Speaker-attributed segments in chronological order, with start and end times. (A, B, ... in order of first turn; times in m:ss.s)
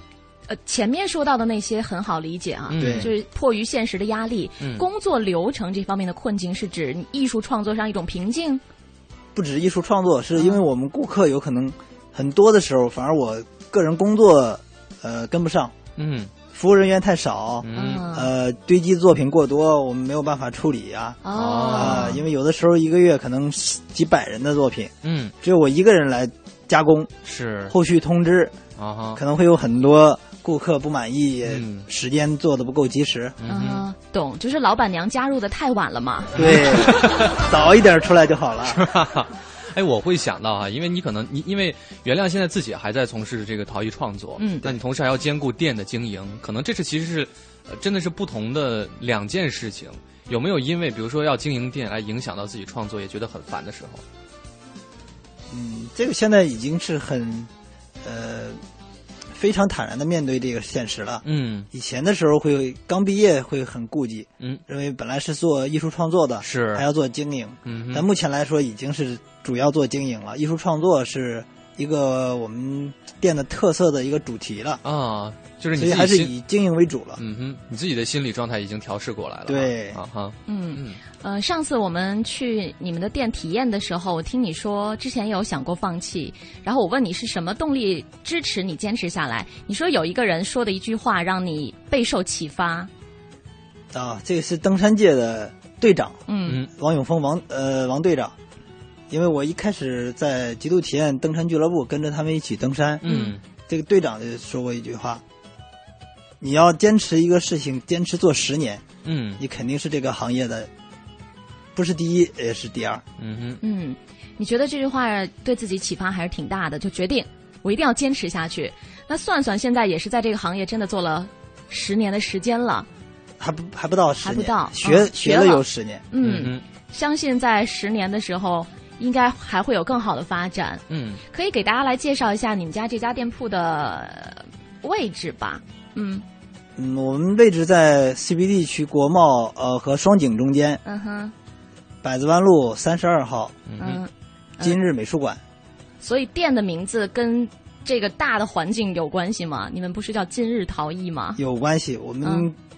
0:00.5-0:08.6 A
0:02.7-0:03.1 B
0:02.8-0:03.1 C
0:04.6-0:04.8 B
0:09.4-0:15.7 C
0:10.4-0:10.6 A
0:16.0-0:16.3 B
0:16.5-0:21.2 C
0:17.6-0:18.1 B
0:17.7-0:18.3 A
0:21.2-0:22.2 A
0:21.3-0:22.1 B
0:21.7-0:27.1 C
0:25.0-0:25.3 B
0:27.3-0:27.7 B
0:27.7-0:28.6 C
0:28.8-0:29.2 B
0:29.2-0:33.4 C
0:31.4-0:31.9 B
0:33.4-0:33.8 B
0:33.5-0:36.3 A
0:36.4-0:37.4 B
0:36.4-0:38.8 C
0:38.7-0:54.0 B
0:44.4-0:44.7 A
0:55.5-0:57.5 C
0:58.0-0:58.6 C
0:59.3-1:14.8 C
1:01.2-1:01.7 B
1:06.4-1:06.8 B
1:07.6-1:08.1 B
1:14.8-1:16.3 B
1:15.8-1:17.2 C
1:17.2-1:21.0 B
1:19.5-1:20.0 C
1:20.5-1:32.9 A
1:33.9-1:38.4 C
1:36.3-1:36.6 A
1:39.1-1:43.0 C
1:43.0-1:43.4 B
1:43.1-1:43.4 A
1:43.7-1:45.2 C
1:46.4-1:48.8 C
1:49.0-1:49.4 B
1:49.4-1:50.7 C
1:51.8-1:53.0 C
1:53.2-1:53.6 B
1:53.6-2:02.9 A
2:03.4-2:06.0 C
2:04.2-2:16.2 A
2:06.2-2:06.6 B
2:10.9-2:11.2 B
2:16.8-2:20.8 C
2:20.8-2:21.3 A
2:22.0-2:23.6 C
2:23.7-2:24.0 B
2:23.8-2:24.8 A
2:24.6-2:25.4 C
2:26.0-2:31.4 A
2:31.4-2:32.6 C
2:32.2-2:32.5 A